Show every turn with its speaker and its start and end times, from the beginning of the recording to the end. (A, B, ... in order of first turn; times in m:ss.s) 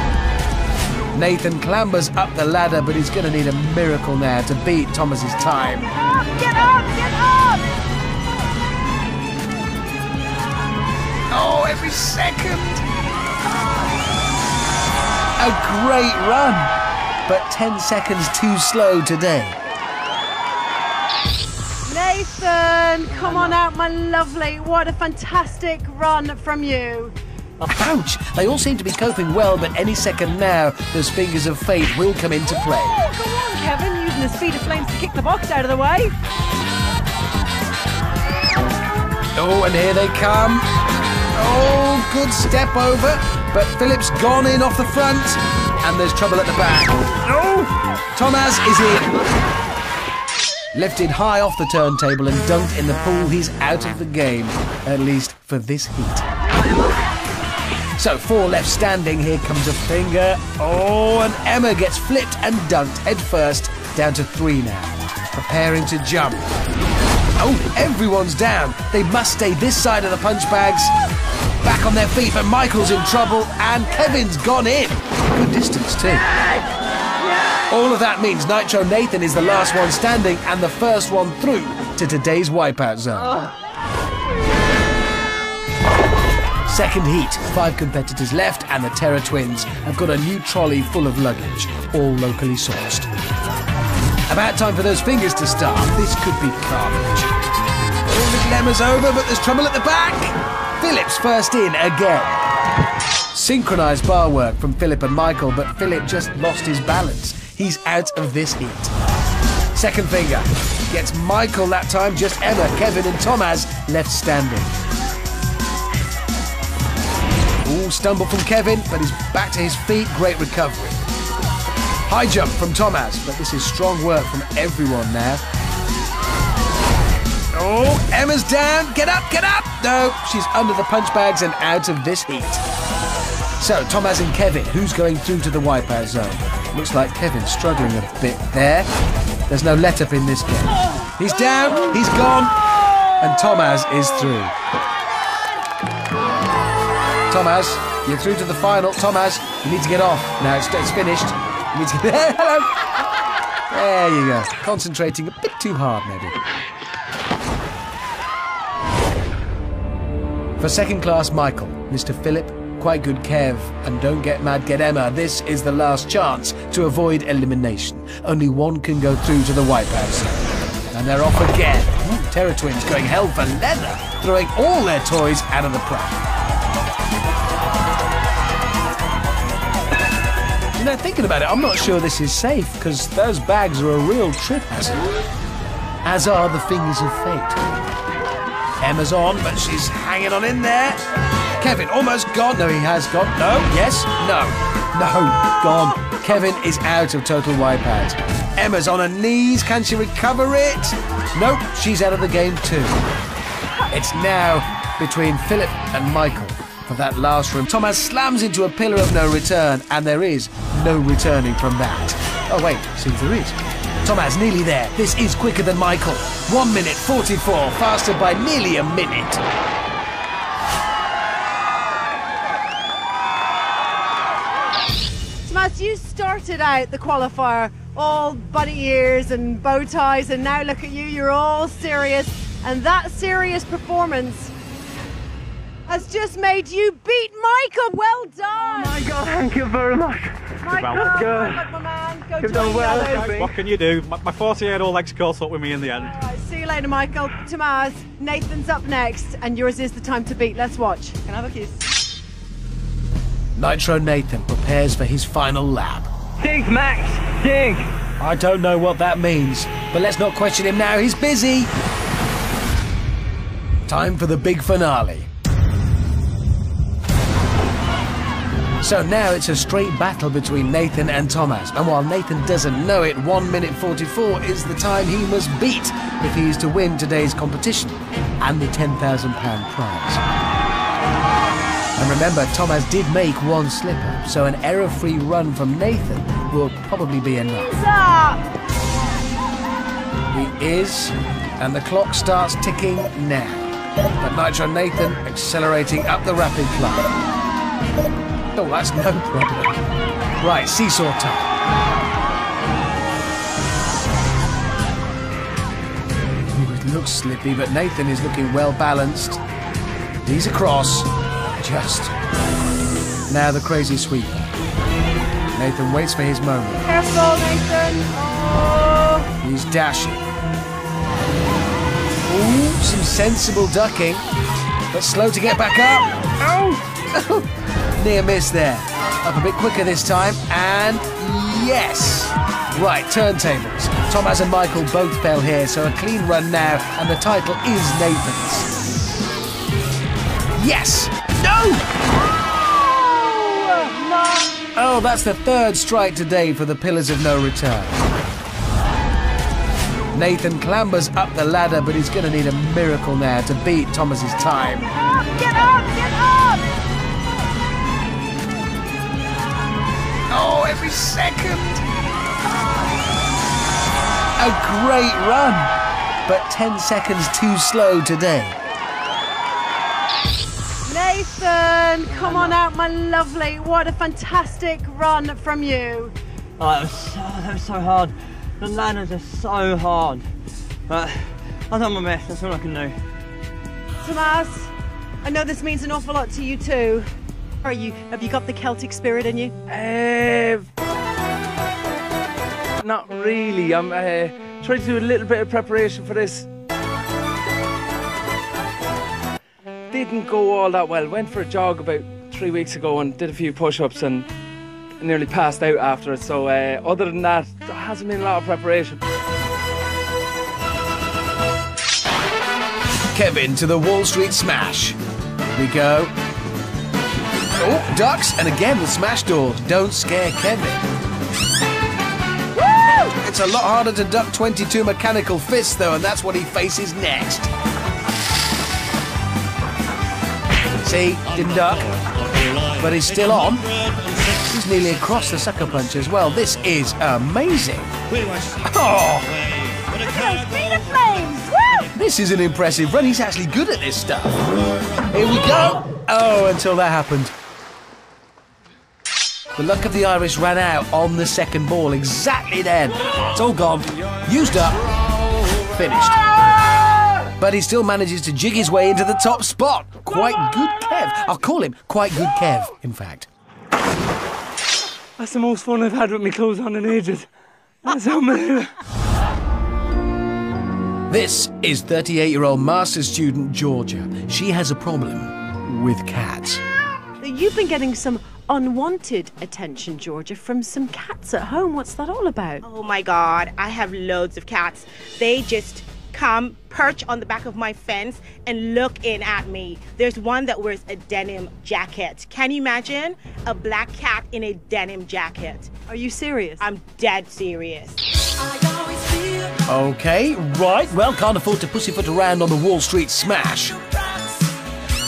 0:01.1-0:05.9 A
0:06.4-0:07.5 B
0:11.3-0:12.8 A
0:15.4-0:16.7 A
0:17.3-0:19.6 A
0:21.8-0:27.1 B
0:27.7-0:33.0 A
0:32.8-0:36.1 B
0:39.3-0:40.6 A
0:41.3-0:47.0 A
0:48.1-0:49.2 A
0:50.7-0:56.2 A
0:58.0-1:06.5 A
1:07.4-1:10.9 A
1:11.6-1:16.2 A
1:17.7-1:23.4 A
1:26.6-1:33.1 A
1:34.3-1:37.3 A
1:38.1-1:42.4 A
1:43.3-1:48.9 A
1:49.7-1:54.7 A
1:57.6-2:01.0 A
2:02.1-2:05.4 A
2:07.5-2:12.6 A
2:13.6-2:18.9 A
2:19.5-2:22.5 A
2:23.2-2:24.5 A
2:27.3-2:32.7 A
2:33.7-2:36.4 A
2:40.6-2:56.2 A
3:00.8-3:05.0 A
3:06.0-3:07.6 A
3:08.8-3:11.0 A
3:11.6-3:23.0 A
3:23.9-3:39.4 A
3:45.4-3:54.5 B
3:55.9-3:59.0 B
4:00.6-4:03.5 B
4:00.7-4:01.2 C
4:02.6-4:06.1 C
4:06.0-4:11.2 B
4:11.3-4:11.7 D
4:13.6-4:16.1 A
4:16.4-4:17.8 D
4:18.2-4:21.7 A
4:23.9-4:25.3 A
4:28.8-4:40.2 A
4:42.0-4:47.8 A
4:47.6-4:48.4 B
4:50.3-4:57.1 A
4:58.5-4:59.8 A
5:00.4-5:01.5 A
5:06.5-5:09.4 A
5:10.2-5:12.1 A
5:13.3-5:14.5 A
5:15.5-5:16.8 A
5:16.8-5:19.3 B
5:19.4-5:20.2 A
5:22.2-5:24.2 A
5:24.9-5:27.4 A
5:28.0-5:38.7 A
5:40.6-5:41.8 A
5:42.4-5:44.5 B
5:44.7-5:48.0 A
5:50.1-5:54.9 A
5:55.2-5:56.7 B
6:00.3-6:01.8 A
6:04.4-6:05.7 A
6:06.2-6:08.6 A
6:10.8-6:16.1 B
6:16.6-6:20.2 D
6:20.9-6:23.0 D
6:24.0-6:24.7 B
6:25.2-6:27.1 B
6:27.6-6:29.5 B
6:29.7-6:30.7 E
6:32.8-6:36.5 E
6:39.9-6:44.3 E
6:45.0-6:49.0 E
6:53.1-6:55.0 A
6:55.6-6:56.1 A
6:57.6-7:00.8 A
7:03.2-7:07.5 A
7:10.8-7:11.9 A
7:12.8-7:13.7 A
7:14.3-7:17.9 A
7:18.6-7:19.4 A
7:20.0-7:21.9 B
7:21.9-7:24.4 A
7:25.1-7:27.3 A
7:29.6-7:34.8 A
7:35.7-7:36.2 A
7:37.4-7:43.3 A
7:45.2-7:47.3 E
7:47.8-7:48.7 E
7:51.1-7:56.6 A
7:57.2-8:02.6 B
8:02.6-8:15.7 F
8:15.9-8:16.6 B
8:16.6-8:18.0 F
8:19.7-8:23.8 A